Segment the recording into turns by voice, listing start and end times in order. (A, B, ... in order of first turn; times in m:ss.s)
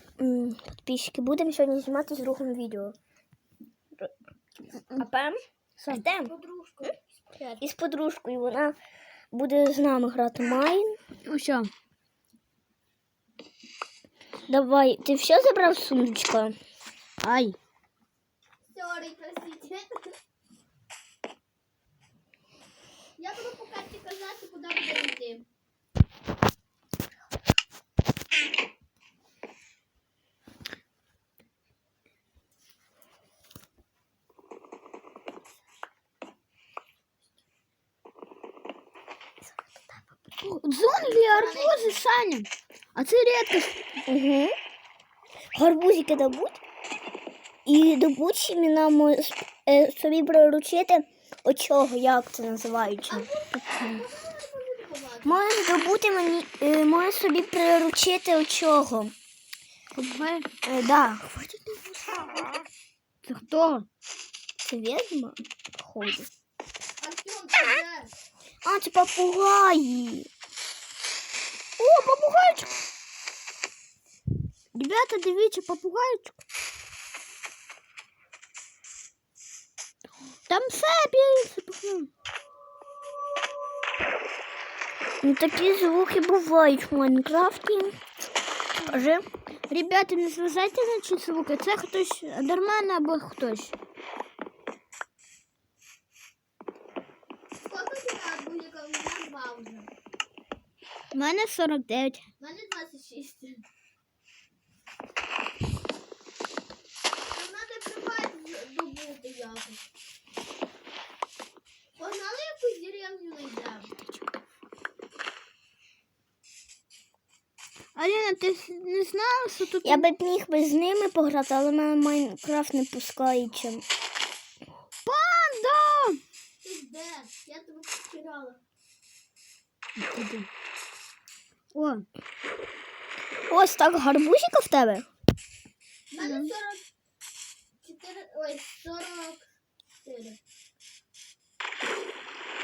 0:00.2-0:03.0 A
0:05.0-0:06.3 A
0:06.3-0:07.6 B
0:07.6-0:08.8 A
0:09.3-0:11.0 A
0:11.3-0:11.7 C
0:14.5-0:16.6 A
0:17.2-0:17.6 C
0:18.7-0:20.1 B
0:23.2-0:25.4 B
0:40.4-0:43.8 C
0:41.2-0:42.0 B
0:44.1-0:44.6 A
0:45.5-0:46.6 A
0:47.7-0:54.0 A
0:53.1-0:55.4 B
0:55.2-0:59.1 A
1:00.0-1:00.5 C
1:00.6-1:02.5 A
1:03.2-1:03.9 C
1:04.6-1:06.3 A
1:07.0-1:08.1 B
1:08.6-1:10.3 A
1:11.8-1:12.7 C
1:14.7-1:16.4 C
1:20.5-1:22.1 C
1:25.2-1:28.0 A
1:28.9-1:29.3 A
1:29.7-1:33.8 C
1:37.6-1:39.9 B
1:41.1-1:42.3 C
1:42.4-1:43.6 B
1:47.3-1:49.8 B
1:52.0-1:53.9 B
1:58.0-2:00.1 C
1:59.8-2:03.8 A
2:05.1-2:06.2 C
2:06.6-2:08.6 B
2:10.0-2:10.5 C
2:11.7-2:12.0 C
2:13.5-2:15.1 A
2:16.1-2:16.8 B
2:16.2-2:16.5 C
2:17.8-2:19.5 B
2:20.0-2:20.4 B